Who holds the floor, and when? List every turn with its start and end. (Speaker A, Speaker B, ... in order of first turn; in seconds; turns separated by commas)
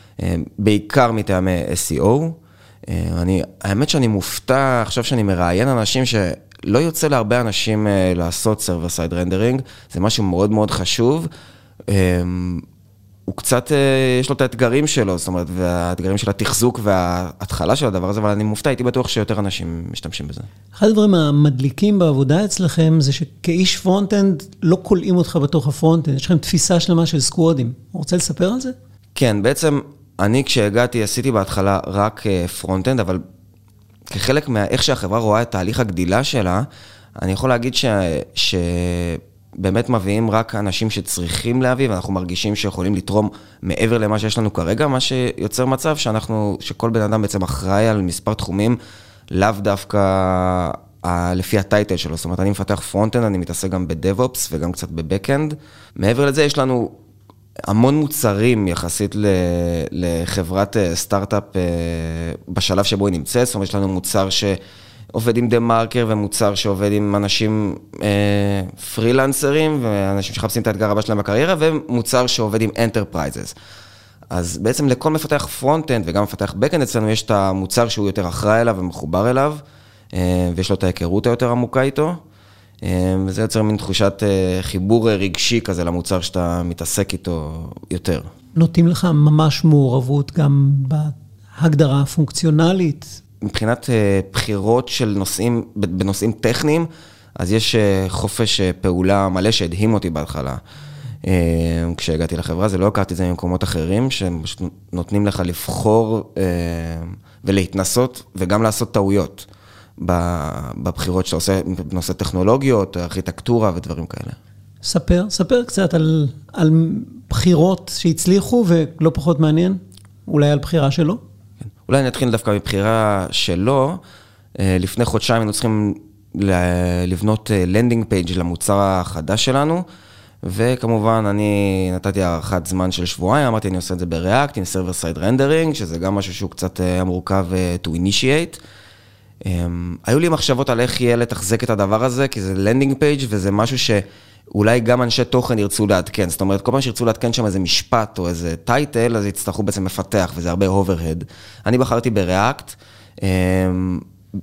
Speaker A: 0.2-11.3, Speaker A: 11.9-12.6, Speaker A: 13.3-20.5, Speaker B: 20.8-28.8, Speaker A: 29.1-33.2, Speaker A: 34.1-36.7, Speaker A: 37.2-48.8, Speaker A: 49.3-57.0, Speaker A: 57.7-64.6, Speaker A: 65.1-73.5, Speaker A: 74.3-79.6, Speaker A: 80.1-82.2, Speaker A: 82.8-88.3, Speaker B: 88.6-93.1, Speaker A: 93.4-100.6, Speaker A: 101.2-109.5, Speaker A: 110.0-114.4, Speaker B: 114.8-121.2, Speaker A: 121.8-124.0, Speaker A: 124.6-129.8, Speaker A: 130.4-138.6, Speaker A: 139.4-154.0